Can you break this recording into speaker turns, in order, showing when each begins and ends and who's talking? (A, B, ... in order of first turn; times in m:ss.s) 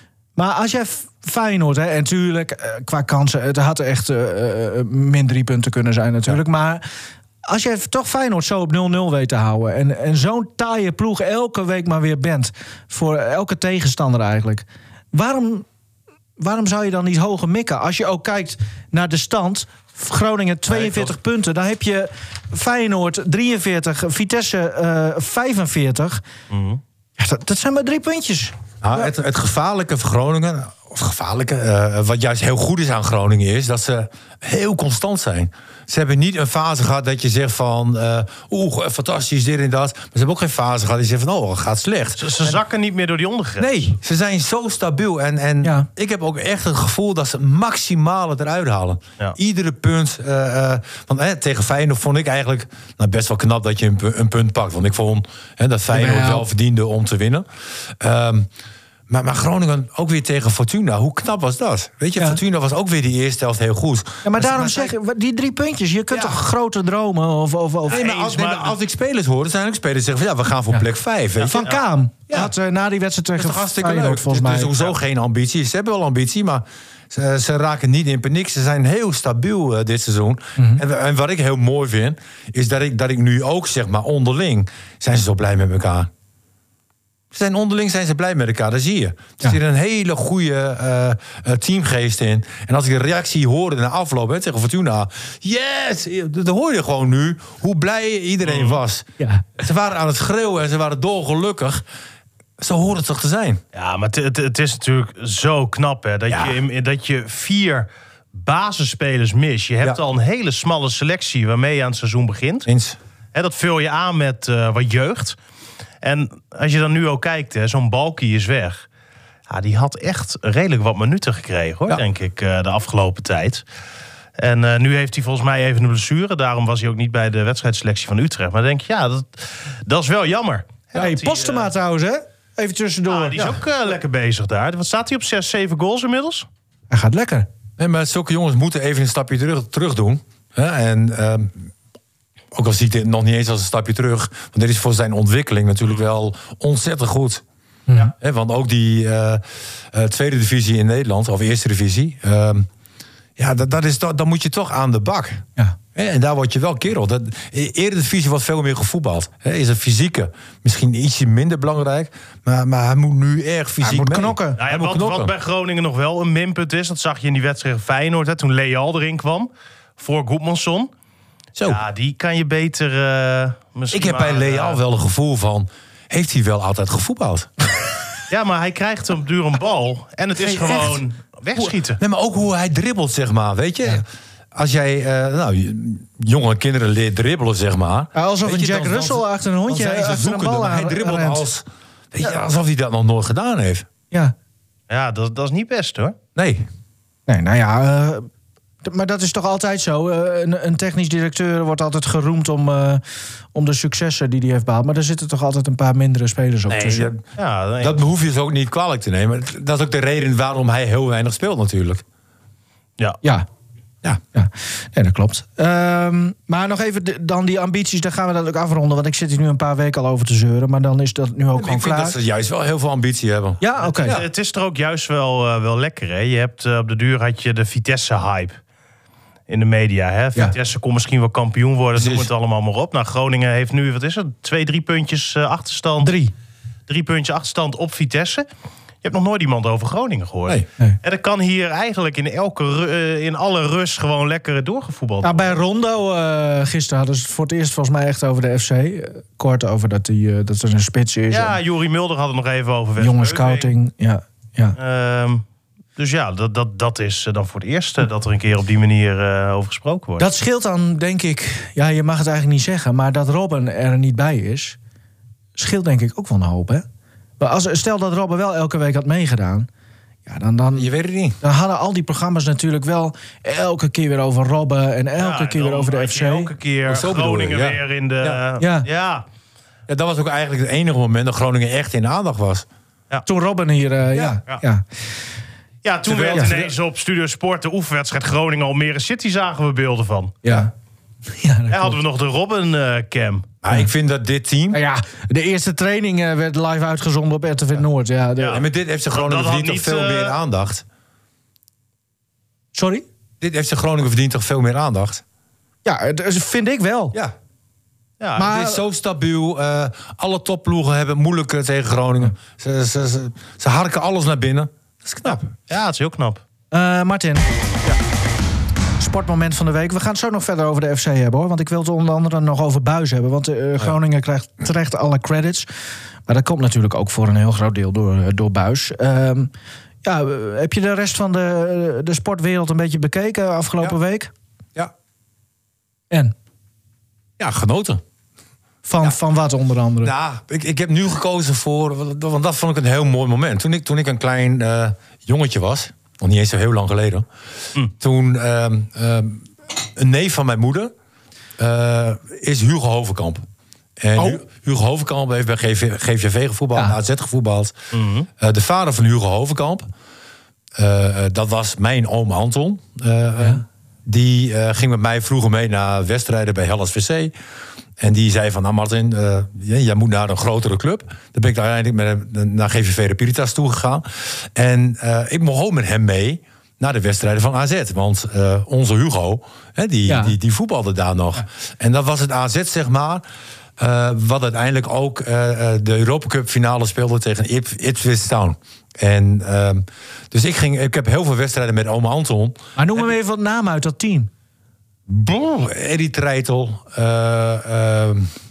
0:00.4-0:06.8 A
0:07.4-0:15.7 A
0:16.4-0:26.2 A
0:26.5-0:26.8 B
0:27.2-0:29.1 A
0:28.8-0:42.6 C
0:42.2-0:43.7 B
0:43.6-0:57.4 C
0:45.6-0:45.9 A
0:55.9-0:56.5 A
0:58.0-0:58.5 C
0:59.1-1:04.9 C
1:04.2-1:08.0 A
1:07.9-1:08.8 B
1:07.9-1:11.6 C
1:11.4-1:14.7 A
1:13.4-1:26.1 C
1:27.3-1:41.8 C
1:38.4-1:38.8 B
1:39.2-1:39.5 A
1:42.6-1:43.6 C
1:43.7-1:52.7 B
1:46.3-1:46.6 C
1:52.6-1:53.0 C
1:53.3-1:55.4 B
1:56.0-1:58.8 B
1:59.5-2:03.6 B
2:04.4-2:11.7 B
2:10.9-2:13.6 A
2:13.1-2:16.4 B
2:16.9-2:17.5 A
2:17.8-2:21.6 C
2:22.5-2:27.4 C
2:27.9-2:28.1 A
2:28.0-2:32.7 C
2:33.4-2:35.4 C
2:35.9-2:45.3 C
2:43.8-2:44.6 A
2:44.6-2:50.9 B
2:51.6-2:51.8 C
2:51.6-2:54.8 B
2:53.9-2:57.5 C
2:58.3-3:02.0 B
3:00.4-3:01.0 C
3:02.0-3:13.9 C
3:08.1-3:11.4 A
3:14.9-3:16.2 B
3:16.4-3:16.7 C
3:17.3-3:18.3 A
3:18.8-3:23.0 A
3:23.5-3:27.1 A
3:26.7-3:27.2 C
3:27.4-3:28.0 B
3:27.8-3:32.0 C
3:34.3-3:42.2 A
3:41.5-3:44.2 C
3:43.6-3:44.2 A
3:43.8-3:48.6 B
3:49.5-3:56.1 B
3:51.9-3:52.3 C
3:56.0-3:56.3 A
3:56.9-3:58.4 B
3:59.0-4:05.6 B
4:05.2-4:11.6 A
4:11.3-4:13.7 B
4:13.0-4:14.8 A
4:14.8-4:15.4 B
4:16.0-4:20.3 B
4:20.2-4:24.8 A
4:25.6-4:26.8 A
4:27.4-4:29.7 A
4:30.2-4:30.9 A
4:30.7-4:31.4 C
4:31.4-4:36.5 A
4:35.2-4:39.2 B
4:36.8-4:38.4 C
4:38.6-4:38.9 A
4:39.9-4:42.6 C
4:43.2-4:44.8 A
4:45.8-4:50.4 B
4:46.1-4:46.7 C
4:46.3-4:46.6 A
4:50.4-4:50.7 A
4:51.3-4:52.0 A
4:51.7-4:53.5 B
4:53.6-4:54.8 C
4:54.7-4:58.6 A
4:58.4-5:00.4 B
4:58.5-5:00.8 C
5:02.7-5:03.0 A
5:03.4-5:05.2 C
5:05.8-5:07.2 A
5:08.2-5:08.5 B
5:08.4-5:08.8 A
5:08.4-5:15.5 C
5:15.7-5:16.4 B
5:16.7-5:17.4 A
5:19.0-5:25.7 A
5:26.3-5:29.5 A
5:30.0-5:34.3 A
5:37.4-5:38.0 C
5:38.8-5:40.1 A
5:40.0-5:47.2 C
5:48.0-5:50.9 C
5:51.6-5:53.4 C
5:54.0-5:57.7 C
5:57.9-5:58.3 B
5:58.4-5:59.9 C
6:00.8-6:07.3 C
6:03.4-6:03.6 A
6:08.0-6:23.2 C
6:20.1-6:20.4 A
6:23.8-6:32.6 C
6:32.8-6:34.3 A
6:35.1-6:38.3 C